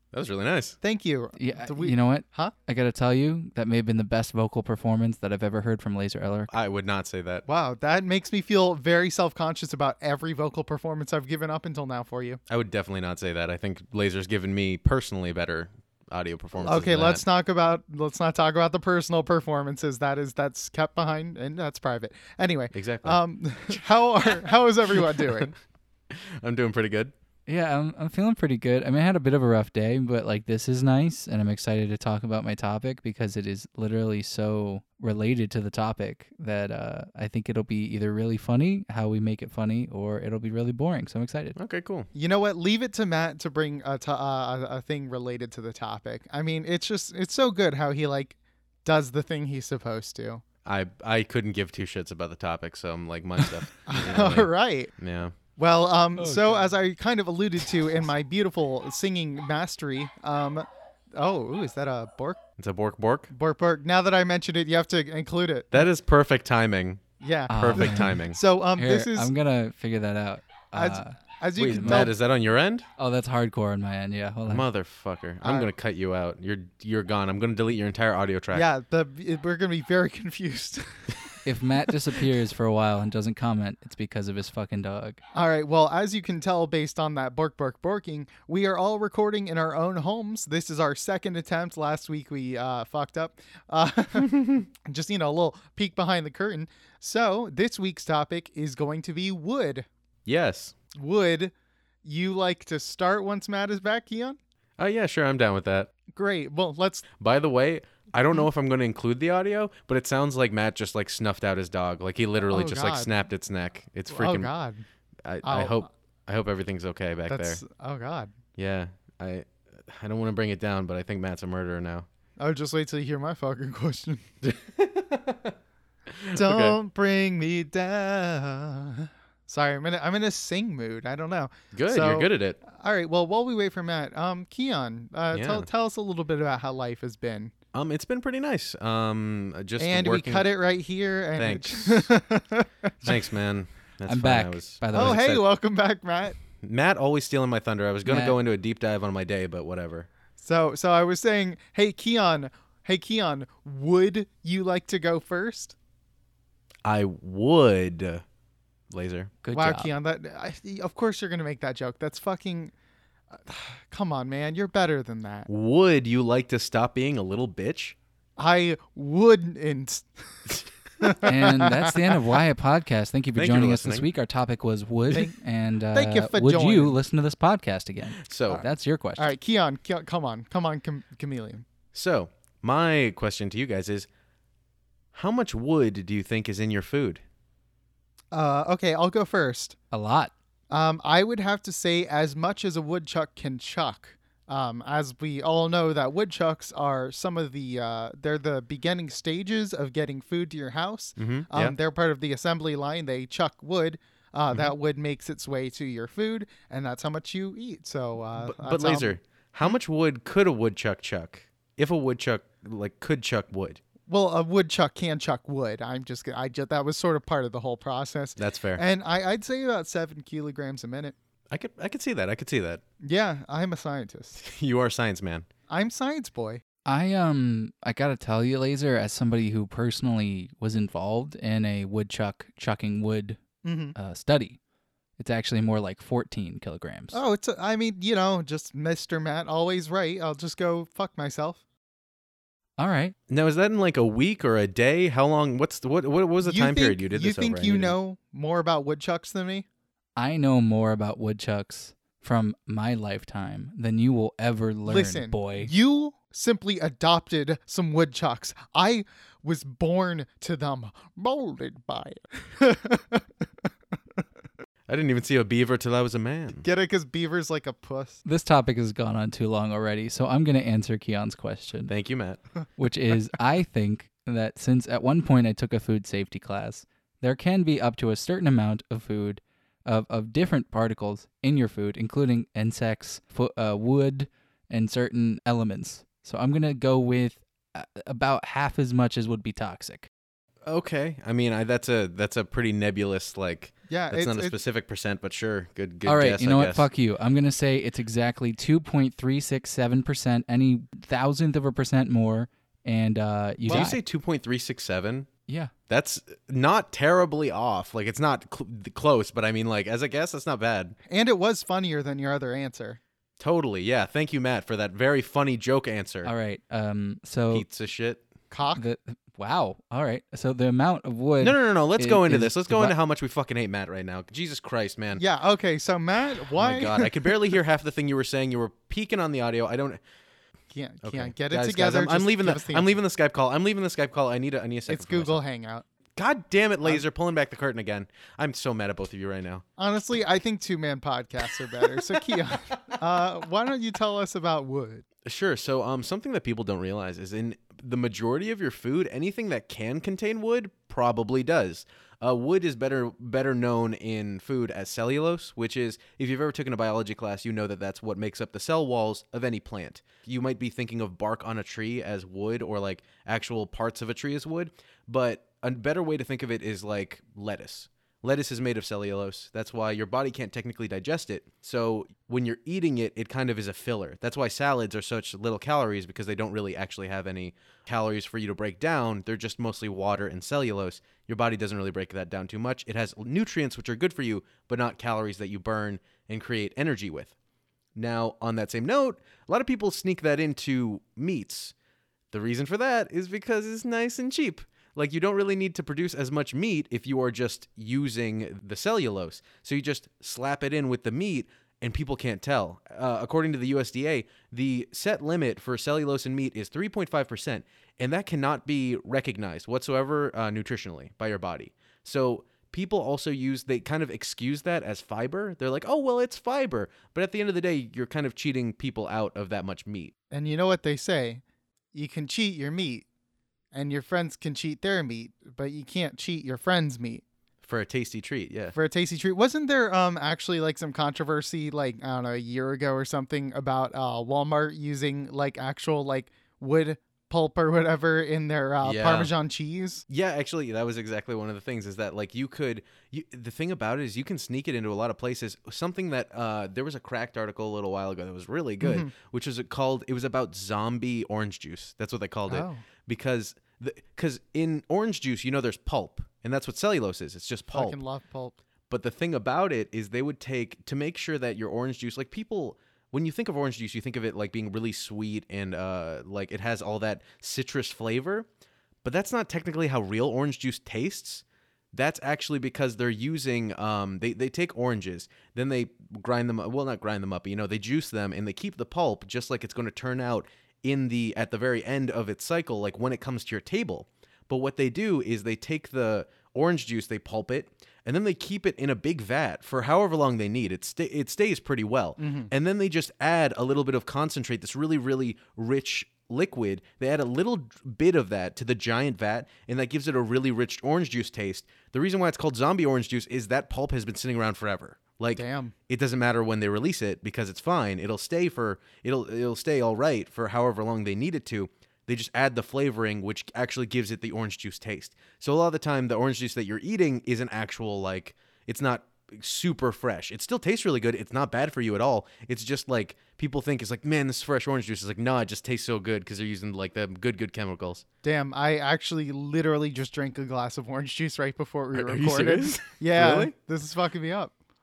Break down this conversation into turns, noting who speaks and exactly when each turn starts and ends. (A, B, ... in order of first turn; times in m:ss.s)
0:00.1-0:00.8 A
0:00.8-0:02.5 B
0:01.4-0:06.5 C
0:06.5-0:07.4 A
0:07.4-0:12.4 B
0:12.5-0:17.2 A
0:16.6-0:25.5 B
0:22.7-0:23.2 A
0:25.0-0:25.5 A
0:26.1-0:27.1 A
0:27.5-0:41.6 C
0:41.6-0:42.1 A
0:42.1-0:50.4 B
0:50.6-0:55.4 A
0:53.8-0:54.9 B
0:55.6-1:02.4 B
0:56.2-0:56.7 C
1:02.6-1:03.3 A
1:03.3-1:05.8 B
1:05.7-1:07.0 A
1:07.2-1:09.3 B
1:07.5-1:08.2 C
1:07.5-1:08.4 A
1:08.8-1:12.1 C
1:10.7-1:12.1 B
1:11.6-1:12.9 A
1:13.0-1:14.6 C
1:14.5-1:18.6 A
1:15.4-1:15.7 B
1:18.5-1:21.2 B
1:21.4-1:25.2 C
1:25.3-1:39.8 B
1:40.2-1:40.7 A
1:40.9-1:41.5 B
1:42.0-1:44.4 B
1:44.8-1:45.9 A
1:46.1-1:47.1 B
1:47.2-1:54.5 A
1:52.5-1:53.1 B
1:54.1-1:54.8 B
1:55.2-1:57.6 A
1:55.4-1:55.8 B
1:57.3-1:58.3 B
1:58.6-2:02.1 A
2:02.4-2:04.2 B
2:04.4-2:05.5 A
2:06.1-2:06.8 A
2:06.3-2:17.5 B
2:11.7-2:12.6 A
2:15.3-2:15.7 A
2:17.7-2:20.5 A
2:19.8-2:23.2 B
2:21.4-2:22.1 A
2:23.0-2:25.2 A
2:24.1-2:25.4 C
2:24.9-2:26.4 B
2:26.6-2:30.1 A
2:28.0-2:28.4 C
2:30.4-2:35.8 B
2:36.8-2:38.2 A
2:38.9-2:39.3 A
2:39.4-2:39.9 C
2:39.5-2:42.7 B
2:43.3-2:45.5 B
2:45.5-2:48.0 A
2:48.4-2:50.1 B
2:51.0-2:52.2 B
2:51.2-2:59.3 C
2:53.3-2:54.1 A
2:55.1-2:55.4 B
2:55.9-2:57.0 B
2:58.2-2:58.6 A
2:59.2-3:01.6 B
3:01.9-3:04.1 A
3:05.1-3:07.2 A
3:08.3-3:09.8 B
3:09.9-3:10.3 C
3:10.7-3:29.2 B
3:21.2-3:21.8 A
3:28.4-3:33.8 A
3:34.1-3:41.1 B
3:38.4-3:38.8 A
3:41.5-3:42.8 A
3:43.0-3:44.4 B
3:44.4-3:45.5 A
3:45.7-3:46.6 B
3:46.8-3:53.4 C
3:53.6-3:53.9 B
3:53.9-3:54.6 C
3:55.2-3:57.2 C
3:57.1-4:01.6 B
4:02.8-4:03.1 C
4:03.3-4:07.9 A
4:06.4-4:09.6 B
4:10.2-4:15.7 C
4:14.9-4:23.2 B
4:24.9-4:26.6 A
4:26.6-4:28.2 B
4:28.2-4:31.9 C
4:31.9-4:32.4 A
4:32.8-4:50.1 C
4:50.6-4:56.8 A
4:53.9-4:54.6 B
4:56.0-5:04.0 C
5:03.6-5:03.9 B
5:03.7-5:05.3 A
5:05.5-5:05.7 C
5:05.9-5:10.9 A
5:11.1-5:13.0 B
5:13.4-5:16.3 A
5:16.2-5:17.6 C
5:17.5-5:18.2 A
5:18.5-5:18.8 B
5:18.7-5:22.9 C
5:21.4-5:25.2 A
5:25.2-5:27.4 B
5:26.6-5:30.0 A
5:30.7-5:33.0 B
5:31.0-5:35.4 A
5:34.9-5:35.8 B
5:36.2-5:39.6 A
5:39.8-5:45.0 B
5:41.8-5:43.0 A
5:45.2-6:27.3 A
6:27.9-6:31.7 A
6:32.3-7:00.1 A
7:00.3-7:01.4 B
7:01.9-7:03.0 B
7:03.7-7:07.2 B
7:07.6-7:08.7 A
7:08.7-7:20.0 B
7:18.8-7:19.3 A
7:20.1-7:38.0 A
7:28.8-7:29.1 B
7:32.5-7:32.8 B
7:37.7-7:38.6 B
7:38.9-7:48.5 A
7:49.0-8:48.0 A
8:12.2-8:12.5 B
8:25.4-8:25.7 B
8:48.2-8:54.5 B
8:51.9-8:53.5 A